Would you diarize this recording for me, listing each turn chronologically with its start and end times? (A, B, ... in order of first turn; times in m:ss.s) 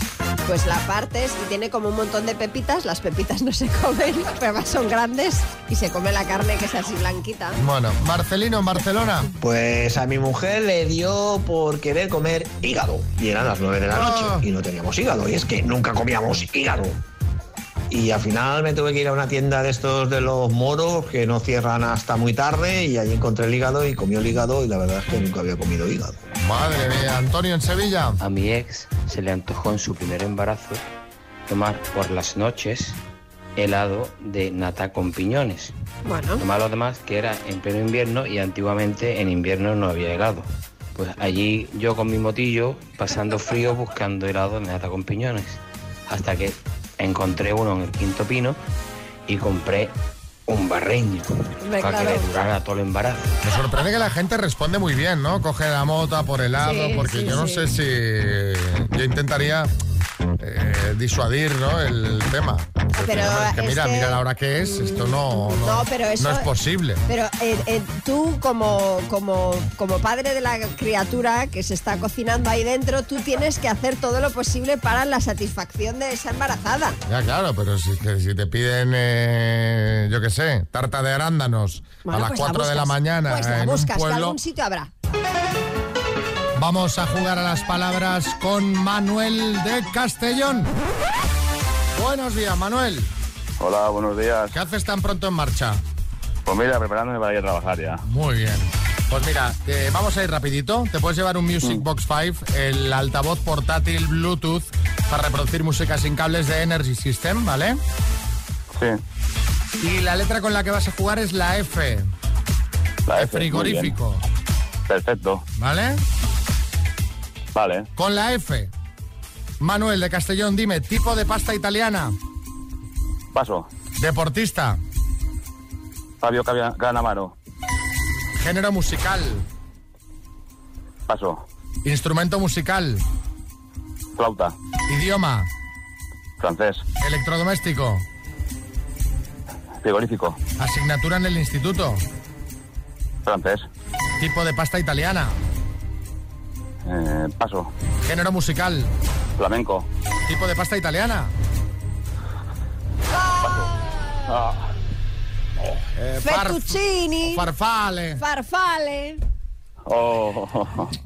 0:00.4-0:07.6 A
0:07.6-0:09.3 B
0:09.4-0:17.0 C
0:13.9-0:14.5 B
0:17.9-0:26.2 C
0:26.4-0:28.2 B
0:28.2-0:30.8 D
0:31.5-0:33.0 D
0:33.6-0:35.7 D
0:36.1-0:36.4 A
0:36.4-0:48.6 D
0:49.3-0:49.9 D
0:50.5-0:53.3 D
0:51.6-0:52.6 A
0:53.4-0:59.7 B
0:56.6-0:57.6 A
1:00.4-1:07.0 B
1:03.0-1:04.2 A
1:05.6-1:06.4 A
1:07.1-1:17.0 A
1:17.1-1:24.4 B
1:22.1-1:24.9 A
1:26.6-1:30.7 B
1:32.0-1:33.1 B
1:33.6-1:34.6 E
1:34.5-1:35.8 B
1:36.4-1:38.0 E
1:38.0-1:47.8 B
1:49.8-1:52.1 B
1:53.1-1:53.9 E
1:53.1-1:54.2 B
1:54.9-1:55.4 E
1:55.6-1:56.0 B
1:57.6-1:57.9 E
1:58.0-1:58.7 B
1:59.6-2:02.1 B
2:03.3-2:03.7 E
2:04.0-2:04.8 B
2:06.2-2:07.3 E
2:08.4-2:09.4 B
2:11.1-2:11.4 E
2:11.8-2:13.0 B
2:14.2-2:14.5 E
2:14.9-2:15.5 B
2:16.4-2:16.8 E
2:17.0-2:18.0 B
2:19.8-2:20.4 E
2:20.6-2:22.0 B
2:23.2-2:23.7 E
2:24.2-2:25.4 B
2:26.8-2:27.7 E
2:28.0-2:28.9 B
2:29.4-2:29.9 E
2:30.3-2:31.3 B
2:33.4-2:33.7 E
2:34.3-2:34.7 E
2:36.0-2:38.2 B
2:36.2-2:37.4 A
2:38.2-2:39.2 A
2:39.9-2:40.9 E